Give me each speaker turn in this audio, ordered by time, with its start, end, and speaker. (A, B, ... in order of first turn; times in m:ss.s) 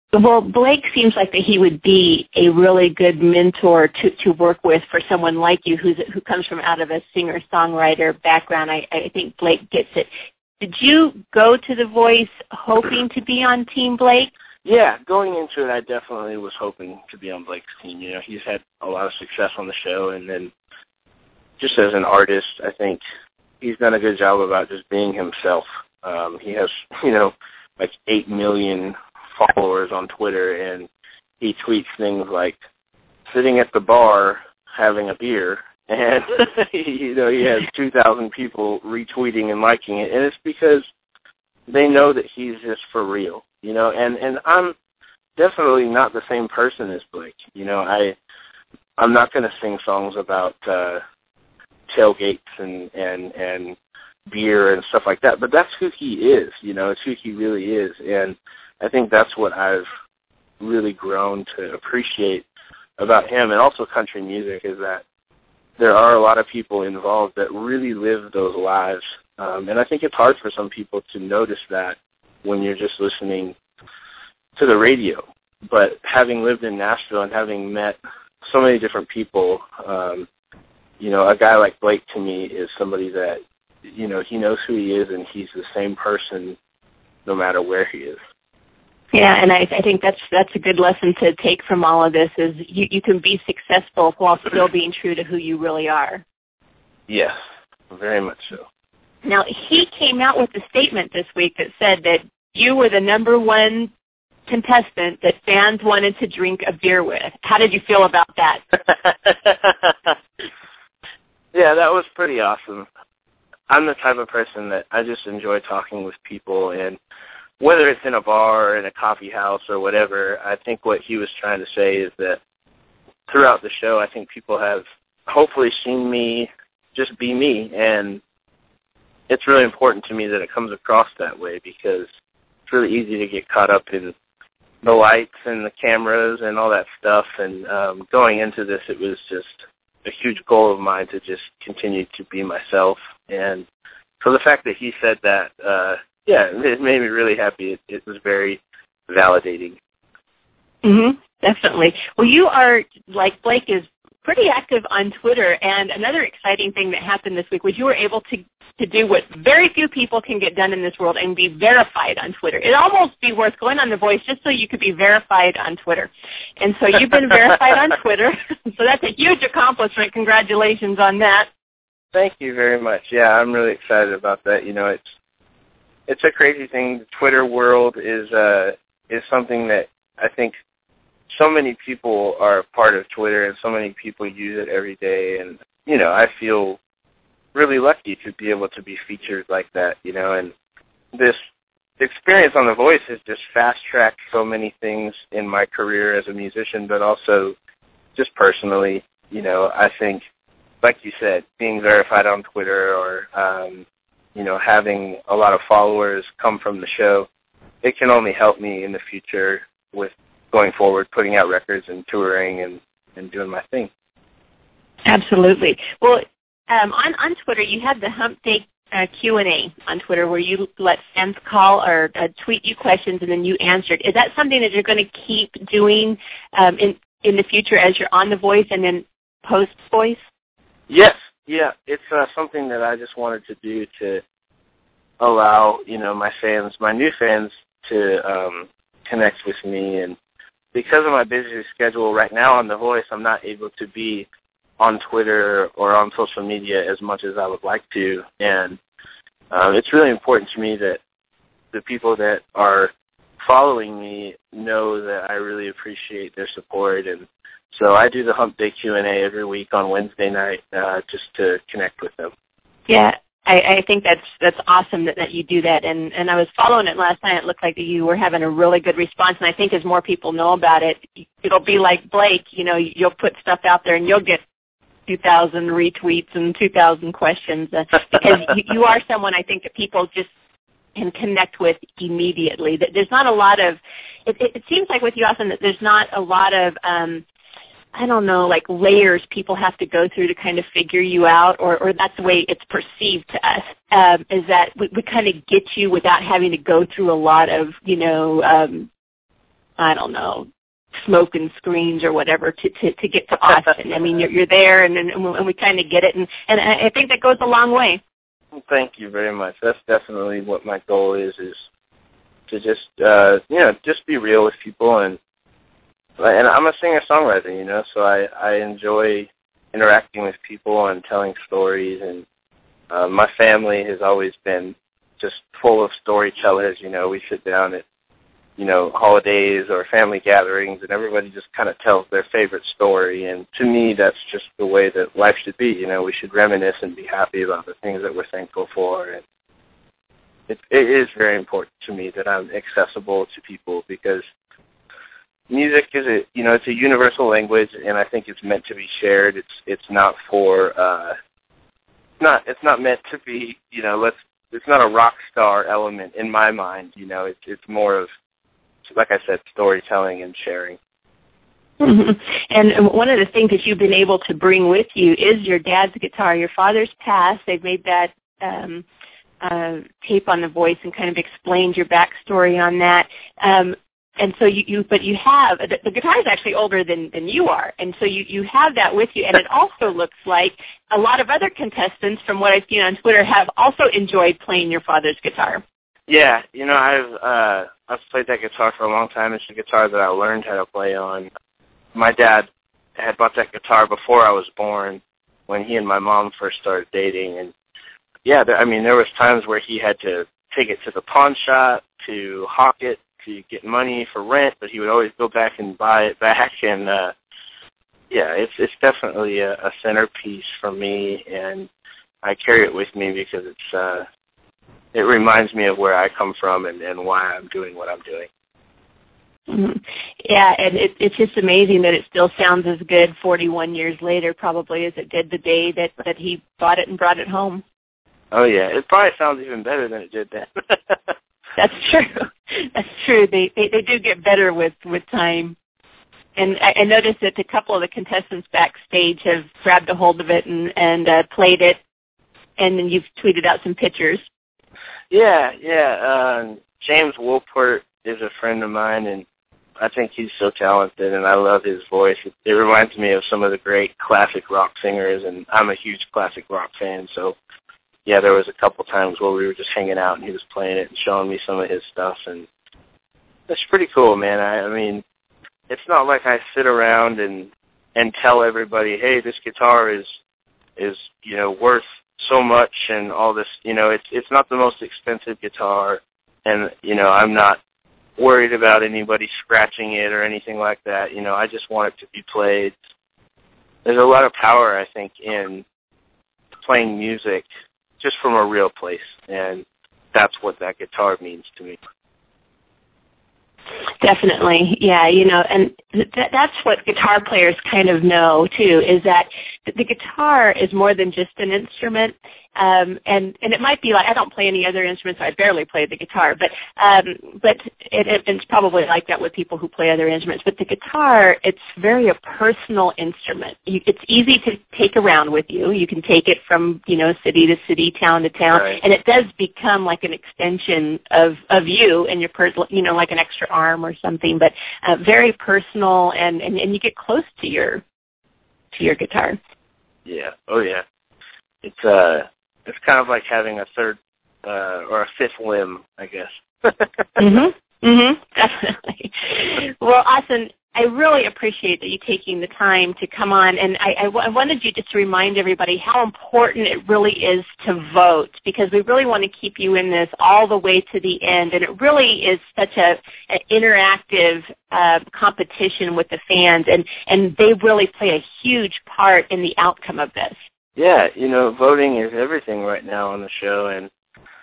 0:00.1-0:10.1 A
0:10.6-0:14.3 A
0:14.6-0:20.5 B
0:21.6-0:23.0 B
0:23.6-0:30.9 B
0:31.4-0:32.6 B
0:33.3-0:40.8 B
0:41.7-0:44.8 B
0:45.4-0:48.2 B
0:49.0-0:51.0 B
0:51.9-0:53.8 B
0:54.3-0:59.9 B
1:00.6-1:02.4 B
1:03.0-1:05.0 B
1:05.8-1:13.6 B
1:14.6-1:20.3 B
1:21.0-1:26.6 B
1:27.3-1:28.2 B
1:29.1-1:36.2 A
1:37.1-1:37.4 B
1:37.9-1:38.6 B
1:39.2-1:43.9 A
1:44.5-1:48.6 A
1:49.0-1:50.1 B
1:51.5-1:52.9 B
1:53.7-1:57.0 B
1:57.6-2:02.4 B
2:03.3-2:08.2 B
2:09.3-2:12.1 B
2:12.7-2:14.1 B
2:14.8-2:23.6 B
2:24.2-2:29.8 B
2:30.8-2:51.5 A
2:52.1-2:55.0 B
2:56.1-3:00.6 B
3:01.3-3:06.8 B
3:07.5-3:10.5 B
3:12.0-3:17.6 B
3:18.2-3:20.2 B
3:20.8-3:27.3 B
3:27.8-3:33.9 B
3:35.1-3:50.2 A
3:50.9-3:54.2 B
3:55.2-4:00.2 B
4:00.7-4:04.3 B
4:04.8-4:08.8 B
4:09.5-4:11.0 B
4:11.7-4:22.3 B
4:22.9-4:34.4 A
4:35.1-4:40.3 A
4:41.0-4:47.2 A
4:47.9-4:58.9 A
4:59.8-5:08.0 A
5:08.6-5:11.7 B
5:12.5-5:15.2 B
5:16.2-5:22.2 B
5:22.9-5:27.8 B
5:28.6-5:39.2 B
5:40.5-5:44.2 B
5:45.5-5:51.2 B
5:52.2-5:58.1 B
5:58.8-6:00.8 B
6:01.8-6:08.8 A
6:09.4-6:25.6 A
6:26.1-6:31.3 B
6:32.0-6:37.5 B
6:38.2-6:47.1 B
6:48.1-6:51.7 B
6:52.2-6:54.0 B
6:54.9-6:58.3 B
6:59.5-7:07.6 A
7:08.3-7:11.1 B
7:11.6-7:15.6 A
7:16.4-7:21.8 A
7:22.6-7:24.2 A
7:25.1-7:29.2 B
7:29.8-7:37.4 B
7:38.1-7:42.5 B
7:43.5-7:45.0 B
7:45.7-7:50.1 B
7:50.8-7:57.6 B
7:58.2-8:02.7 B
8:03.8-8:05.6 B
8:06.6-8:07.5 B
8:08.0-8:11.8 B
8:14.0-8:47.8 A
8:38.5-8:38.8 B
8:48.7-8:49.4 A
8:50.1-8:50.8 B
8:51.6-8:57.3 B
8:57.2-9:20.4 A
9:20.8-9:23.9 B